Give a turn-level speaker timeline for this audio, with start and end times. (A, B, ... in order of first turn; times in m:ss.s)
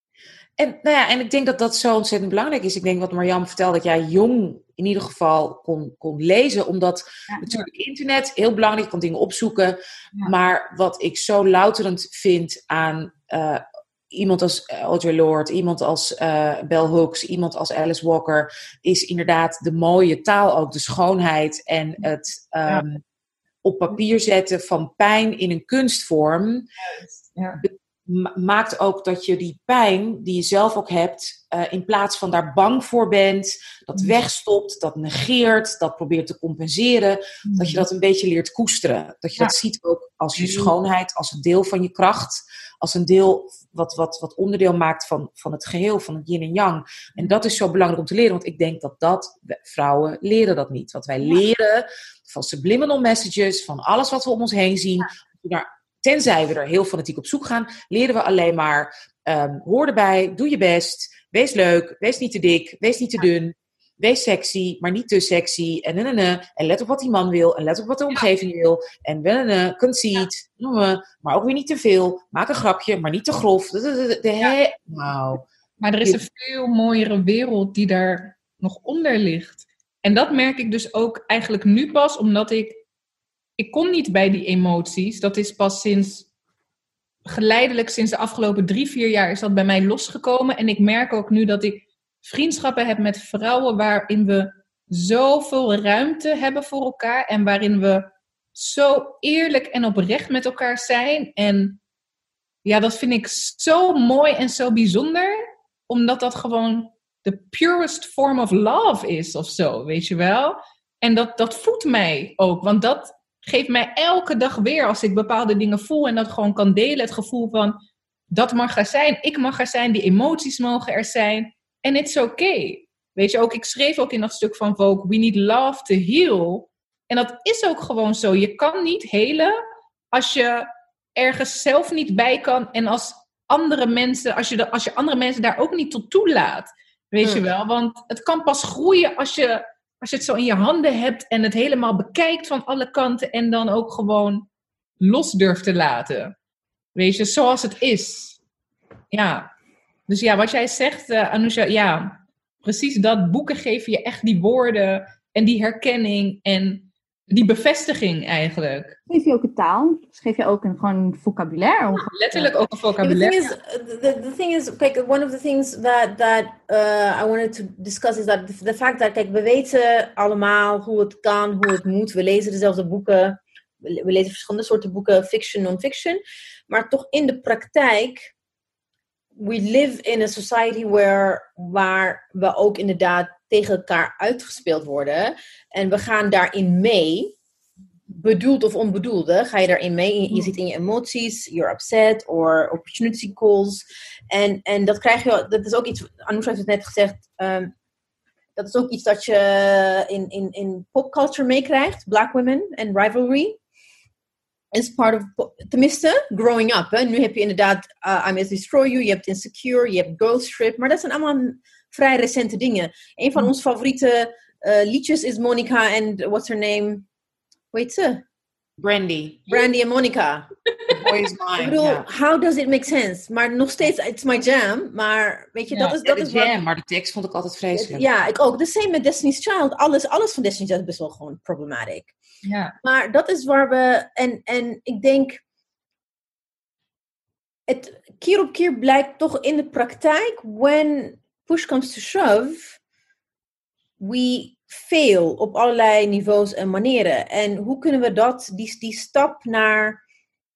0:00.6-0:23.0 A
0:07.3-0:07.7 B
0:23.6-0:26.7 A
0:26.8-0:27.6 B
0:27.6-1:15.4 A
0:37.4-0:37.8 B
0:40.4-0:40.7 B
1:15.8-1:22.8 B
1:23.6-1:26.3 B
1:27.3-1:41.8 B
1:42.6-1:57.8 B
1:58.3-2:09.6 B
2:10.1-2:24.5 B
2:25.0-2:26.3 B
2:27.0-2:28.4 B
2:29.1-2:29.5 B
2:30.1-2:39.0 B
2:39.1-2:42.5 C
2:41.9-2:43.5 B
2:43.0-2:58.3 D
2:59.4-3:07.3 D
3:08.1-3:17.7 D
3:18.6-3:23.6 D
3:24.7-3:37.1 D
3:37.7-3:38.2 D
3:38.8-3:39.5 A
3:39.5-3:40.5 D
3:40.9-3:42.0 A
3:41.6-3:46.5 D
3:45.7-3:46.0 B
3:46.0-3:48.0 A
3:47.8-3:52.1 D
3:52.4-3:52.7 B
3:52.8-3:55.4 D
3:57.7-4:02.8 D
4:04.0-4:10.0 D